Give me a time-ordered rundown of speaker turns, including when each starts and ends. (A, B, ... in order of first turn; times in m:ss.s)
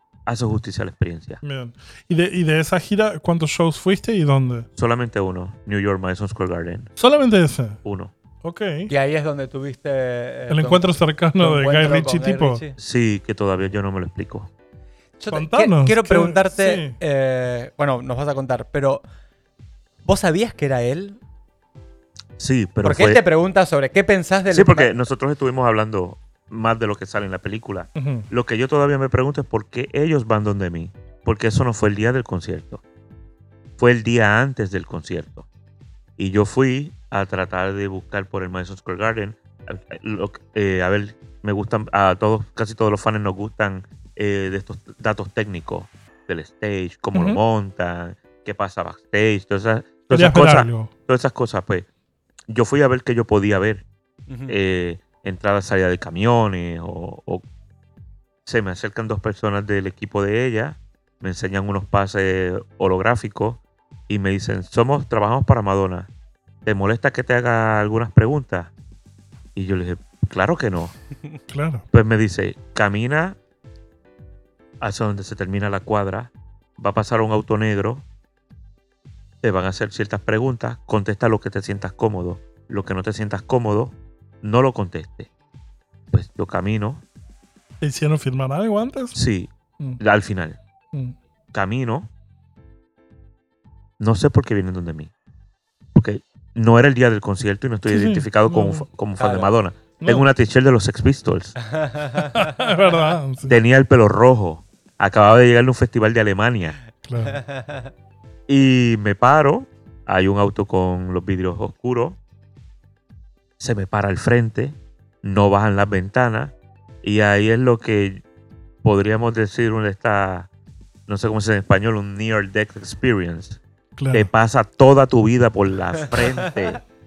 0:00.2-0:01.4 A
0:01.4-0:04.7 B
0:04.8-0:06.9 A
0:07.0-0:07.8 B
0:07.8-0:08.1 A
0:08.4-0:08.9 B
0:08.9-0:12.8 C
0:10.5-0:12.6 B
0:12.8-0:14.5 A
0:15.2-0:19.0 C
0:15.3-0:17.0 B
0:20.0-0:21.2 C
0:22.4-0:23.2 A
0:22.8-0:24.9 C
0:24.5-0:32.8 A
0:28.0-0:28.3 B
0:33.8-0:35.4 A
0:36.2-0:51.9 A
0:47.1-0:47.4 B
0:50.1-0:50.9 B
0:52.5-0:53.8 A
0:54.3-0:54.6 C
0:54.5-0:57.4 A
0:58.4-1:06.1 A
1:06.6-1:08.7 A
1:09.5-1:10.9 A
1:11.5-1:11.8 B
1:11.9-1:13.4 A
1:14.8-1:18.0 A
1:19.4-1:25.3 A
1:26.1-1:27.0 A
1:27.8-1:29.2 B
1:29.1-1:30.6 A
1:31.5-1:32.1 A
1:34.0-1:35.1 A
1:35.9-1:41.5 A
1:37.8-1:38.8 B
1:39.2-1:39.5 C
1:40.0-1:40.3 B
1:41.6-1:42.6 C
1:42.2-1:43.6 B
1:43.5-1:46.8 A
1:47.0-1:47.4 B
1:47.2-1:47.9 C
1:48.5-1:52.2 A
1:53.6-1:58.2 A
1:58.8-2:00.5 A
2:01.1-2:03.6 A
2:04.0-2:04.3 B
2:04.1-2:06.8 A